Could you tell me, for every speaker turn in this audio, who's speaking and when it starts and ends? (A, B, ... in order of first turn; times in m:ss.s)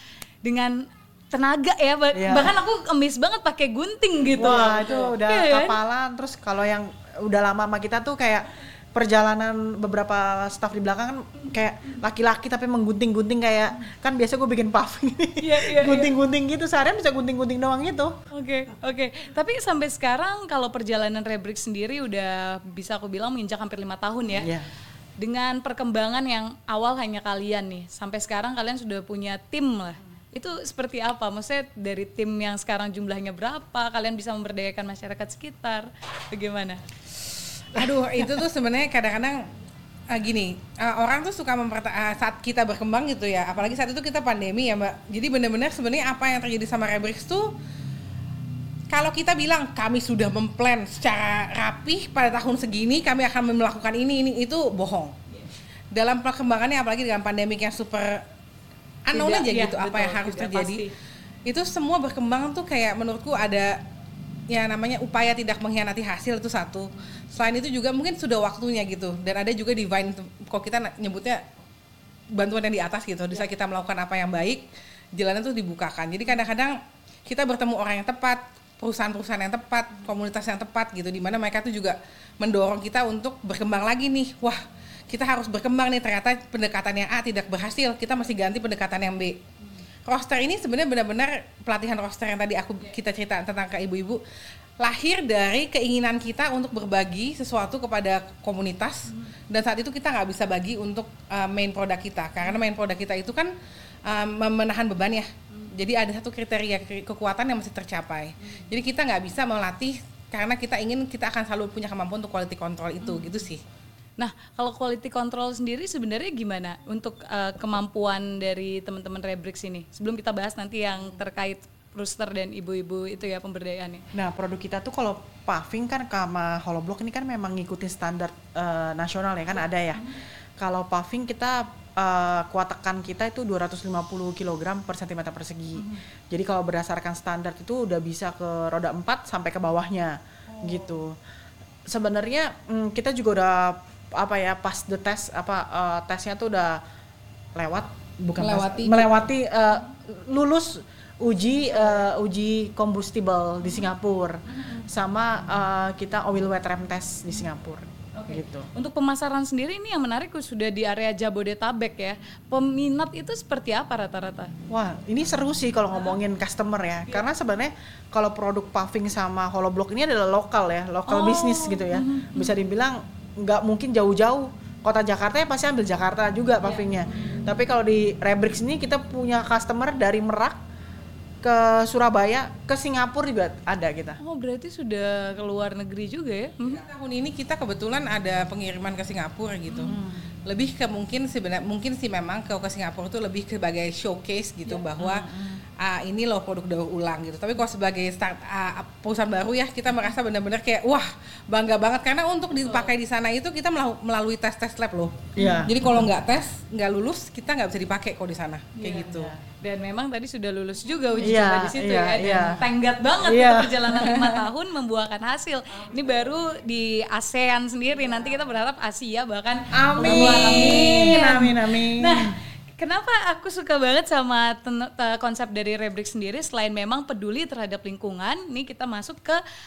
0:00.4-0:05.8 A
0:02.1-0:02.5 B
0:04.3-0:18.1 B
0:04.4-0:05.1 C
0:15.4-0:16.1 A
0:18.3-0:24.5 A
0:24.4-0:24.7 B
0:25.2-0:36.8 A
0:37.7-0:39.5 C
0:40.1-0:47.5 C
0:48.9-0:55.2 C
0:55.9-0:58.2 C
0:59.1-1:00.8 C
0:59.1-1:00.9 A
1:01.5-1:03.8 C
1:04.5-1:11.4 C
1:12.4-1:14.6 C
1:15.2-1:29.4 C
1:30.1-1:34.2 C
1:34.8-1:43.5 C
1:44.1-1:53.6 C
1:53.0-1:53.4 A
1:54.2-2:04.0 A
2:04.1-2:21.2 B
2:21.9-2:26.8 B
2:27.6-2:38.7 B
2:28.4-2:29.1 C
2:38.2-2:44.5 A
2:44.7-3:00.6 B
2:51.1-2:52.5 A
2:56.6-2:57.4 A
3:01.4-3:04.2 B
3:04.2-3:06.9 A
3:06.7-3:29.3 C
3:09.8-3:10.3 B
3:15.0-3:15.6 B
3:22.6-3:22.9 A
3:25.4-3:26.1 B
3:25.4-3:25.7 A
3:28.8-3:49.4 A
3:29.0-3:29.4 B
3:31.2-3:32.7 B
3:33.2-3:34.0 B
3:34.0-3:34.4 C
3:39.7-3:42.3 B